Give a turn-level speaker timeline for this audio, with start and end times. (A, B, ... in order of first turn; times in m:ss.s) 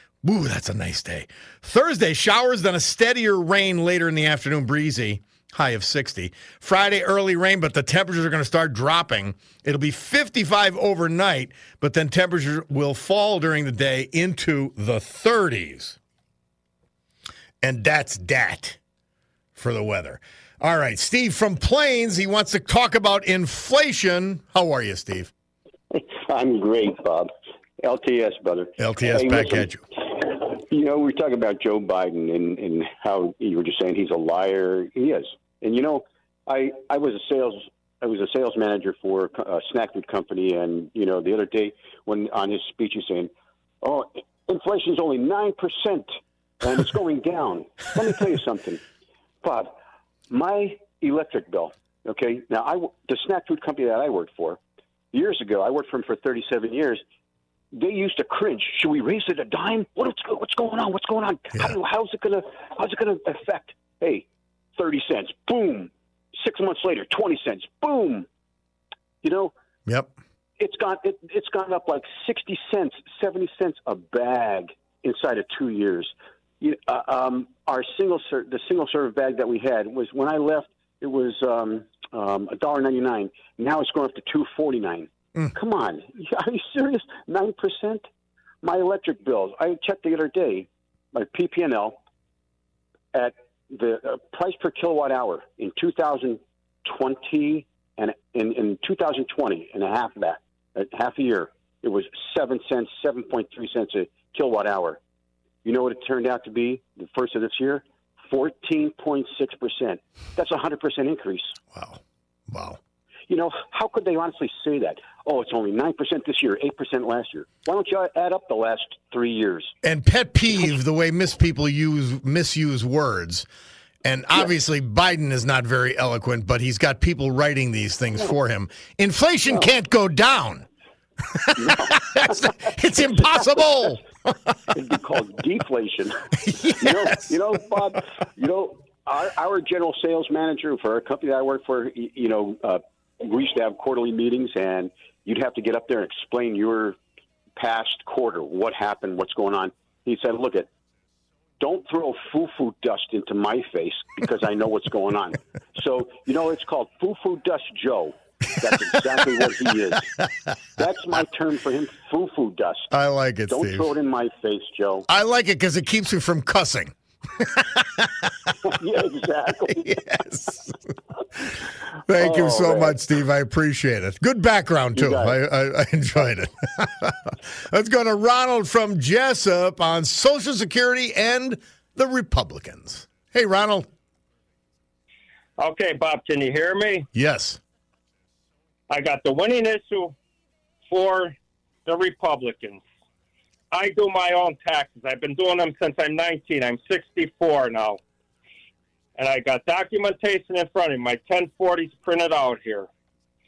0:00.2-0:16.0 A
0:17.6-0:18.8 A
0:19.5-0:25.3 A
0:25.9-0:43.3 B
0:28.8-0:29.8 A
0:43.8-0:46.1 B
0:46.6-0:48.8 B
0:49.4-0:49.7 B
0:50.3-0:54.6 B
0:55.1-0:57.0 B
0:57.7-1:04.2 B
1:04.8-1:08.2 B
1:09.2-1:09.5 B
1:09.8-1:10.1 A
1:10.6-1:28.0 B
1:28.6-1:32.0 B
1:33.1-1:45.0 B
1:45.6-1:51.5 B
1:51.7-1:52.8 A
1:53.3-1:59.7 B
1:59.8-2:03.5 A
2:04.0-2:10.6 A
2:11.3-2:14.4 A
2:11.6-2:13.9 B
2:14.7-2:16.1 B
2:16.4-2:17.3 A
2:16.8-2:27.0 B
2:27.6-2:30.7 B
2:31.6-2:40.1 B
2:40.8-2:42.9 B
2:42.9-2:43.9 A
2:43.5-2:45.1 B
2:45.1-2:48.5 A
2:48.7-2:50.0 B
2:49.7-2:50.8 A
2:52.0-3:03.9 A
2:52.1-2:53.0 B
2:54.9-2:55.4 B
3:05.6-3:07.1 C
3:07.1-3:07.6 A
3:08.9-3:10.1 C
3:10.9-3:11.3 C
3:11.8-3:12.8 C
3:13.7-3:18.0 C
3:19.2-3:22.9 C